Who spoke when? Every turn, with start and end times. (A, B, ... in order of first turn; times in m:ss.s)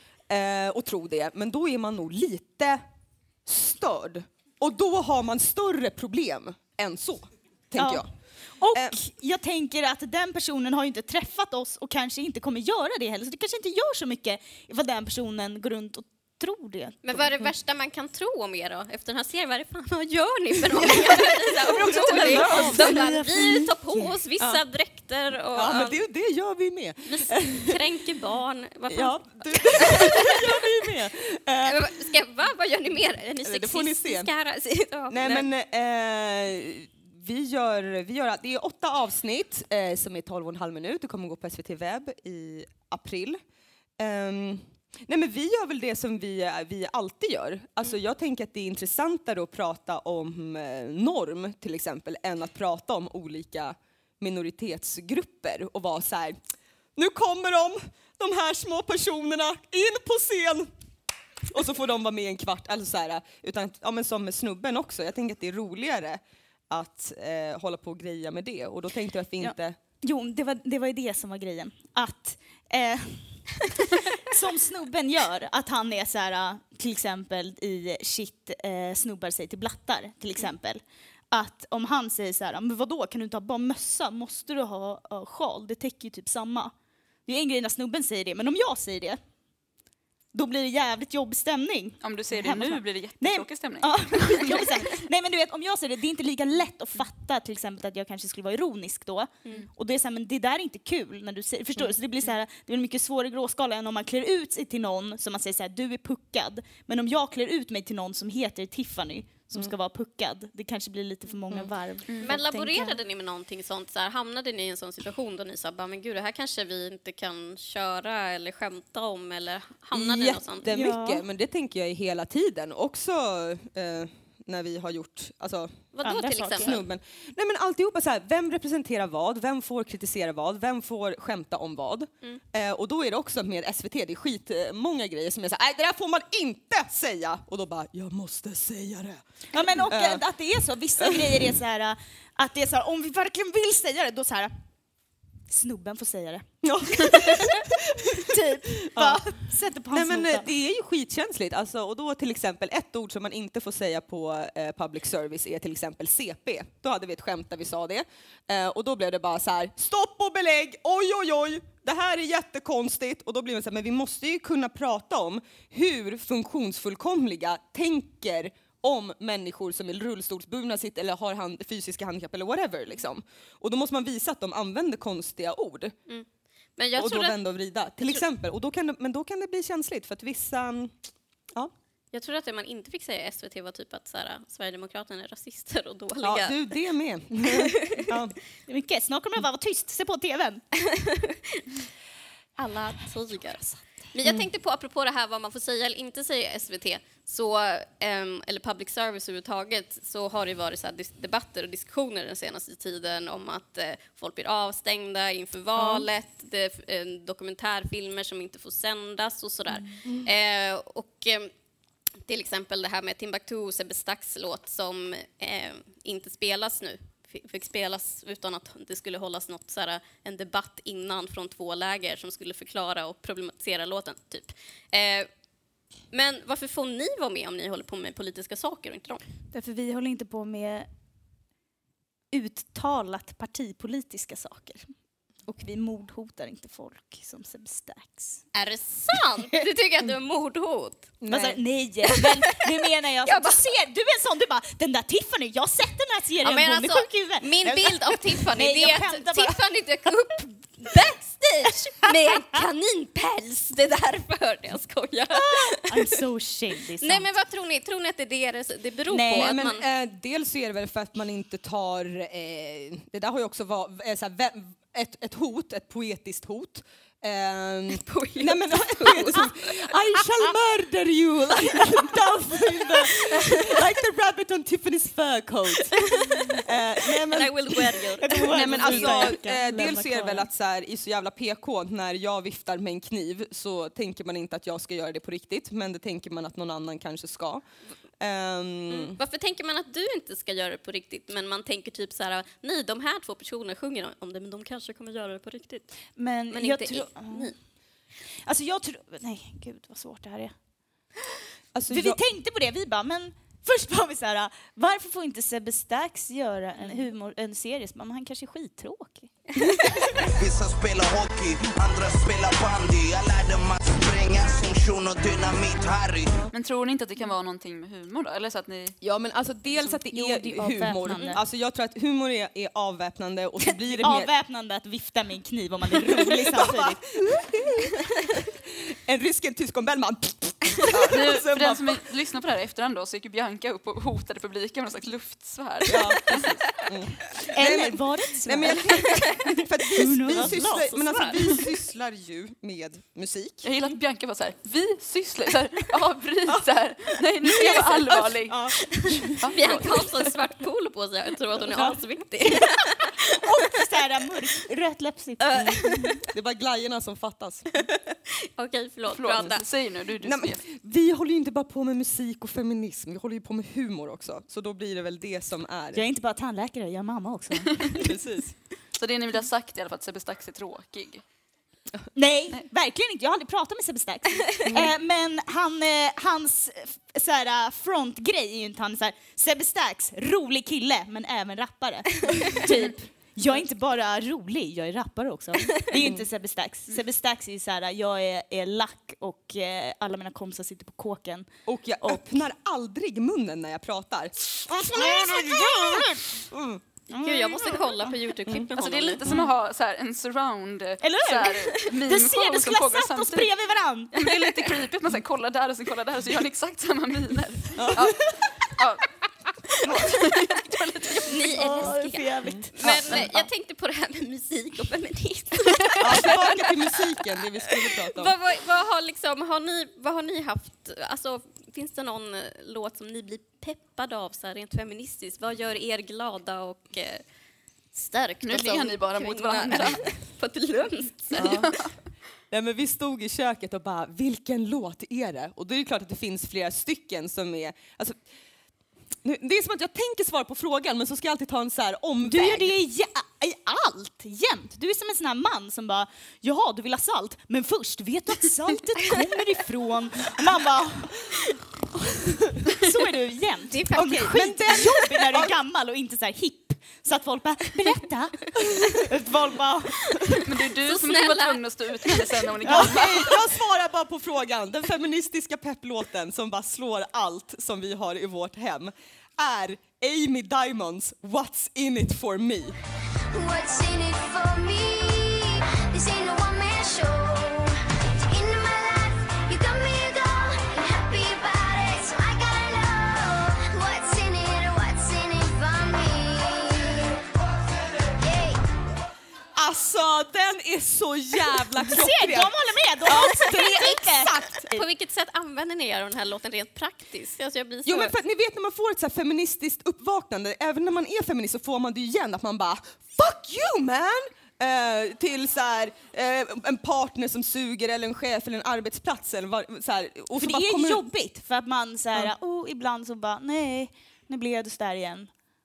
0:00.3-0:02.8 A
0:03.5-0:08.1 A
0:07.8-0:08.1 B
0:08.6-0:17.1 B
0:17.0-0:26.0 C
0:21.1-0:23.0 A
0:21.7-0:23.7 B
0:25.5-0:27.8 A
0:27.1-0:30.4 C
0:28.9-0:31.8 A
0:31.6-0:35.5 C
0:33.4-0:34.3 A
0:35.1-0:43.4 A
0:44.0-0:56.4 A
0:57.0-1:00.7 A
1:01.5-1:09.8 A
1:09.4-1:13.5 B
1:14.2-1:26.7 B
1:27.3-1:29.2 B
1:30.3-1:53.0 B
1:32.0-1:35.0 D
1:52.2-2:00.7 C
1:59.9-2:05.8 A
2:00.7-2:01.2 B
2:05.9-2:06.8 C
2:06.0-2:06.8 B
2:06.6-2:19.2 A
2:19.5-2:24.5 B
2:19.9-2:20.2 A
2:21.0-2:21.4 A
2:25.5-2:30.5 B
2:26.6-2:56.0 A
2:56.1-2:57.4 C
2:57.0-3:01.0 A
2:58.0-2:58.3 C
3:02.1-3:06.8 C
3:06.2-3:08.4 A
3:07.5-3:08.0 C
3:08.1-3:10.6 B
3:11.0-3:11.6 C
3:12.6-3:31.5 C
3:25.8-3:26.0 A
3:32.3-3:45.3 C
3:46.1-3:49.2 C
3:49.5-3:50.9 B
3:52.3-3:54.9 B
3:55.4-3:58.4 B
3:58.5-4:01.1 C
4:01.2-4:01.6 A
4:01.3-4:09.6 B
4:02.2-4:02.5 C
4:03.2-4:03.6 C
4:06.4-4:16.2 C
4:15.3-4:17.3 B
4:17.0-4:19.8 C
4:19.1-4:19.6 B
4:19.4-4:47.6 A
4:27.9-4:30.4 C
4:36.2-4:36.5 C
4:37.3-4:39.4 C
4:38.0-4:40.5 B
4:48.2-4:49.2 A
4:48.9-4:57.6 C
4:56.2-4:57.5 B
4:58.4-5:00.6 B
5:01.7-5:02.2 A
5:01.9-5:09.3 B
5:10.2-5:16.4 E
5:16.5-5:19.0 D
5:19.0-5:24.3 A
5:19.8-5:21.4 B
5:24.0-5:27.1 B
5:26.1-5:32.0 A
5:30.9-5:36.6 D
5:35.9-5:43.7 A
5:37.5-5:39.1 B
5:40.0-5:40.9 B
5:40.2-5:41.6 C
5:43.6-5:48.6 D
5:47.4-5:49.8 A
5:48.8-5:53.8 C
5:51.7-5:52.0 B
5:53.4-5:56.1 B
5:55.4-5:56.2 C
5:56.3-5:57.7 A
5:57.8-5:59.6 C
5:59.1-6:00.6 D
6:00.2-6:06.0 A
6:05.9-6:08.1 B
6:08.0-6:08.5 A
6:09.0-6:11.2 D
6:12.1-6:31.5 B
6:14.6-6:14.9 A
6:25.9-6:26.2 A
6:31.7-6:36.8 A
6:32.0-6:32.4 B
6:34.9-6:36.3 B
6:37.1-6:38.1 B
6:37.1-6:39.2 C
6:38.8-6:49.1 D
6:41.0-6:44.8 B
6:47.8-6:48.2 A
6:49.8-6:50.1 A
6:50.3-6:51.1 D
6:50.8-6:57.0 C
6:51.4-6:53.0 B
6:52.5-6:53.3 A
6:56.0-6:58.4 A
6:57.7-7:07.2 C
7:07.9-7:11.7 C
7:08.4-7:10.2 D
7:11.3-7:11.9 D
7:11.4-7:11.8 A
7:12.5-7:18.2 A
7:19.2-7:22.7 A
7:22.2-7:31.3 B
7:32.7-7:40.4 B
7:33.7-7:34.7 C
7:33.9-7:35.5 A
7:40.3-7:42.5 C
7:40.4-7:43.4 D
7:42.6-7:43.1 B
7:42.7-7:52.8 A
7:53.3-8:07.1 F
8:08.2-8:08.6 F
8:09.6-8:14.7 A
8:11.7-8:14.8 B
8:14.7-8:18.1 C
8:17.8-8:31.0 A
8:30.4-8:35.3 B